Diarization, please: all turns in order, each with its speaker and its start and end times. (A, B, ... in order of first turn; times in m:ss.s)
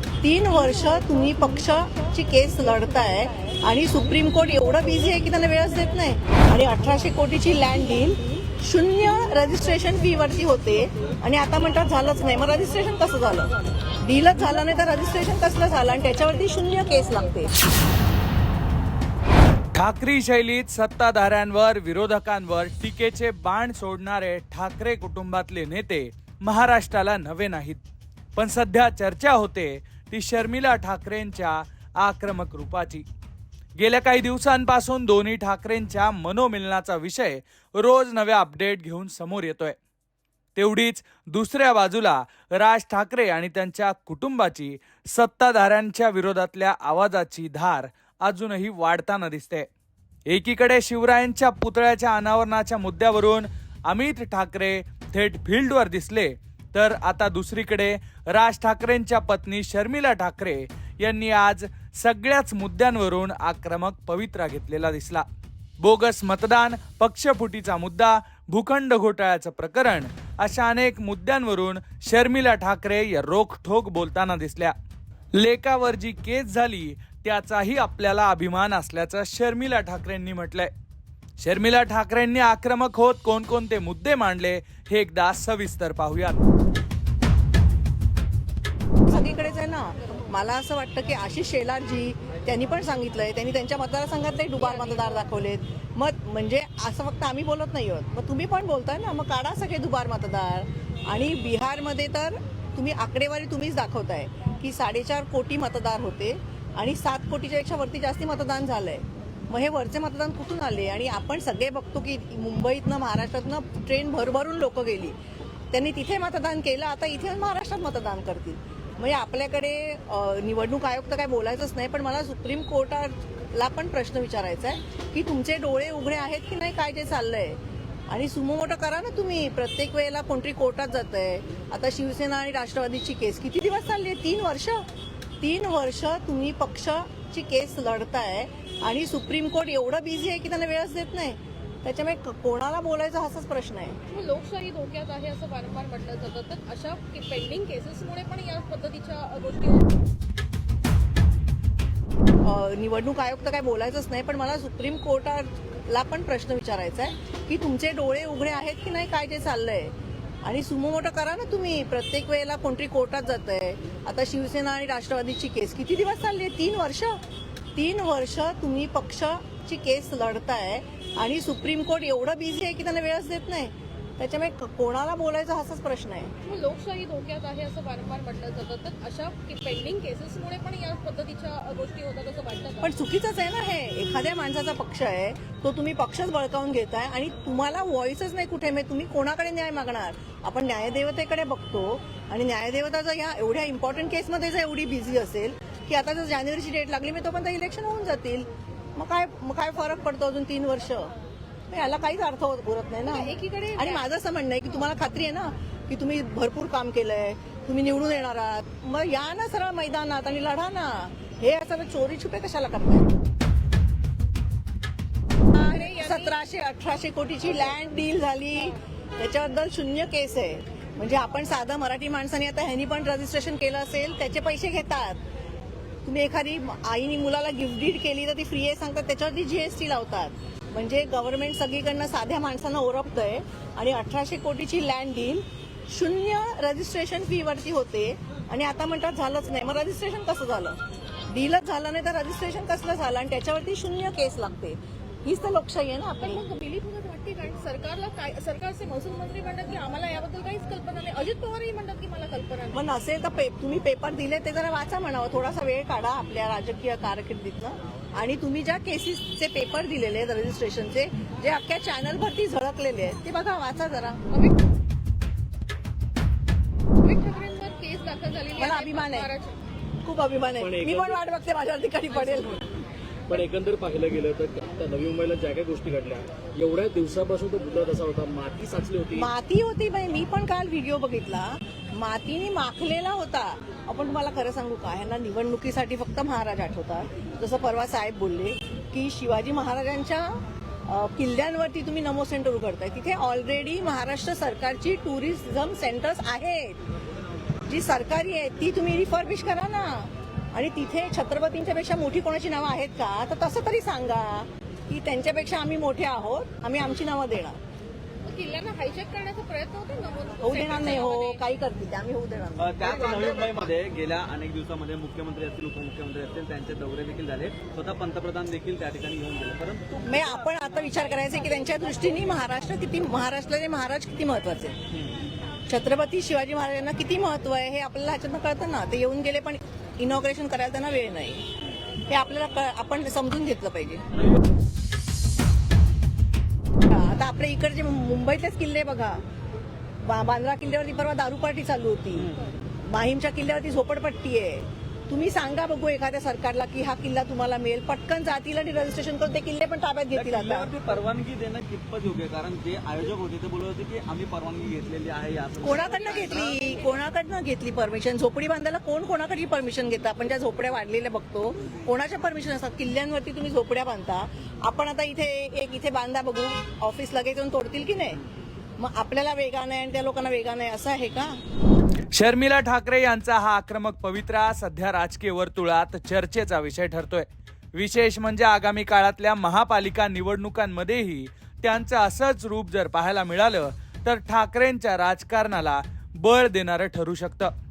0:00.2-0:17.5 A
0:19.7-0:27.8 B
0:28.4-0:33.0 B
0:33.8-0:39.8 B
0:40.6-0:49.6 B
0:50.3-1:05.2 B
1:05.8-1:14.7 B
1:15.4-1:20.7 B
1:21.4-1:26.4 B
1:29.0-1:55.2 A
1:55.7-2:14.8 A
2:15.4-2:24.0 A
2:24.1-2:29.9 C
2:32.4-2:47.2 A
2:47.7-2:56.3 A
2:56.4-3:02.9 C
3:02.8-3:21.1 A
3:21.7-3:33.1 A
3:23.0-3:24.0 C
3:35.5-3:45.2 A
3:35.6-3:36.4 C
3:46.0-4:00.8 A
4:01.3-4:06.4 A
4:06.2-4:12.8 C
4:12.7-4:24.2 A
4:24.3-4:24.6 C
4:27.0-4:29.6 C
4:28.6-4:29.3 A
4:30.0-4:32.7 A
4:33.3-4:39.2 D
4:39.1-4:56.8 A
4:57.7-5:07.6 A
5:08.2-5:11.4 C
5:10.4-5:13.7 A
5:12.6-5:20.0 E
5:20.0-5:24.8 A
5:25.7-5:31.4 A
5:32.1-5:34.0 A
5:36.9-5:39.2 A
5:40.0-5:42.3 A
5:42.8-5:50.7 A
5:50.1-5:56.8 E
5:55.6-6:08.2 A
5:55.9-5:56.8 C
6:08.8-6:11.4 A
6:12.1-6:27.5 B